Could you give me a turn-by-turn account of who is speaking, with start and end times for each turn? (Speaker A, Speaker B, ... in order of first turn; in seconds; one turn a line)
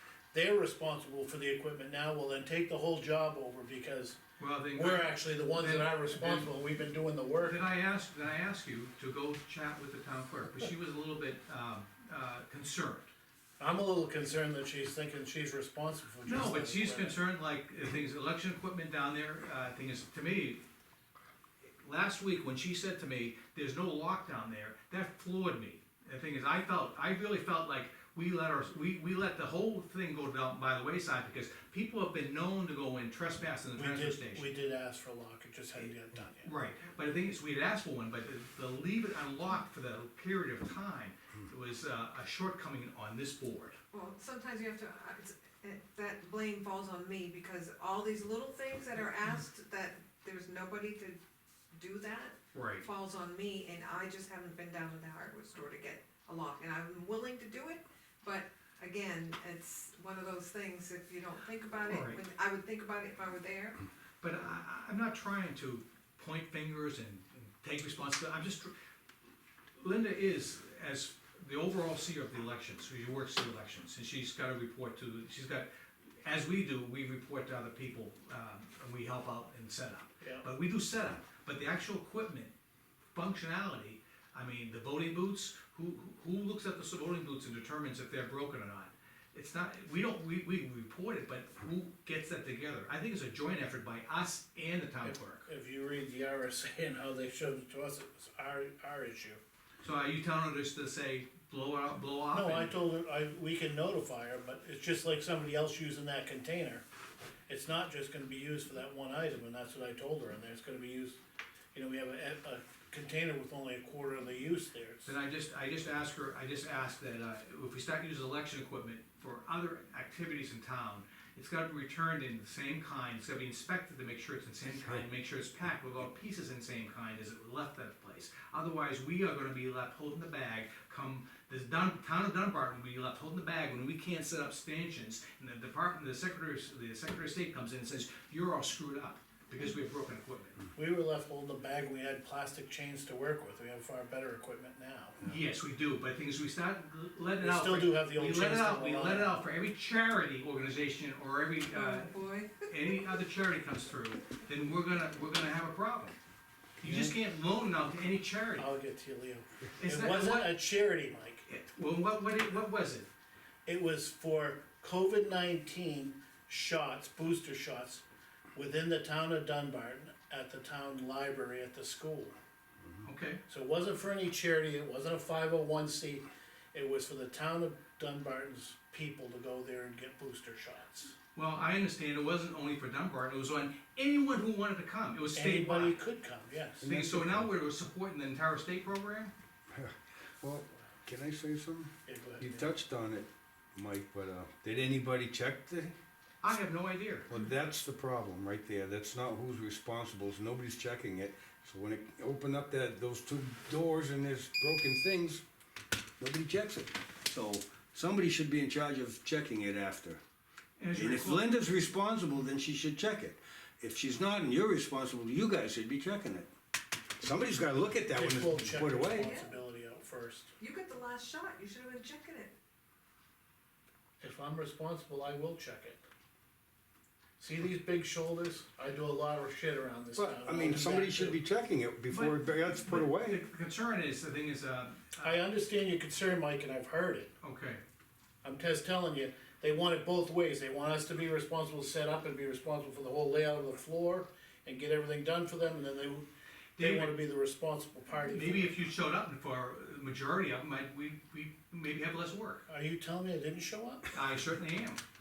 Speaker A: 0.3-4.2
Speaker B: 4.4-6.5
Speaker A: 4.7-7.6
Speaker B: 7.4-13.1
Speaker A: 13.6-17.2
Speaker B: 16.2-20.6
Speaker B: 21.8-34.5
Speaker A: 33.7-36.5
Speaker B: 36.4-43.8
Speaker C: 43.9-51.2
Speaker C: 51.7-63.8
Speaker B: 52.5-52.9
Speaker B: 61.9-62.2
Speaker B: 64.2-68.7
Speaker B: 69.8-75.7
Speaker B: 76.2-82.5
Speaker B: 83.1-95.5
Speaker A: 95.0-99.4
Speaker B: 99.8-102.7
Speaker A: 102.3-106.8
Speaker A: 107.5-111.2
Speaker A: 111.7-115.1
Speaker B: 115.0-140.6
Speaker A: 140.7-145.2
Speaker B: 145.2-156.2
Speaker A: 147.4-149.4
Speaker C: 151.7-153.0
Speaker B: 156.8-158.7
Speaker A: 156.8-157.2
Speaker A: 158.6-161.4
Speaker B: 159.8-160.5
Speaker B: 161.4-163.1
Speaker A: 163.7-168.0
Speaker A: 168.5-172.3
Speaker B: 173.0-173.4
Speaker A: 173.5-181.1
Speaker B: 181.3-186.0
Speaker A: 185.3-186.8
Speaker D: 186.8-187.5
Speaker B: 186.8-189.3
Speaker D: 189.7-196.0
Speaker A: 192.1-192.7
Speaker B: 196.4-197.3
Speaker D: 197.3-205.4
Speaker D: 206.2-210.2
Speaker B: 210.8-211.4
Speaker D: 210.9-216.5
Speaker D: 217.2-219.3
Speaker A: 218.1-220.5
Speaker C: 219.1-219.6
Speaker C: 220.6-222.5
Speaker A: 224.2-226.0
Speaker A: 227.4-231.4
Speaker D: 230.2-233.4
Speaker B: 232.1-235.3
Speaker A: 235.2-237.3
Speaker B: 237.4-237.8
Speaker A: 238.4-246.2
Speaker B: 246.8-247.2
Speaker A: 246.8-248.8
Speaker B: 248.2-252.6
Speaker A: 252.7-254.1
Speaker B: 254.1-255.0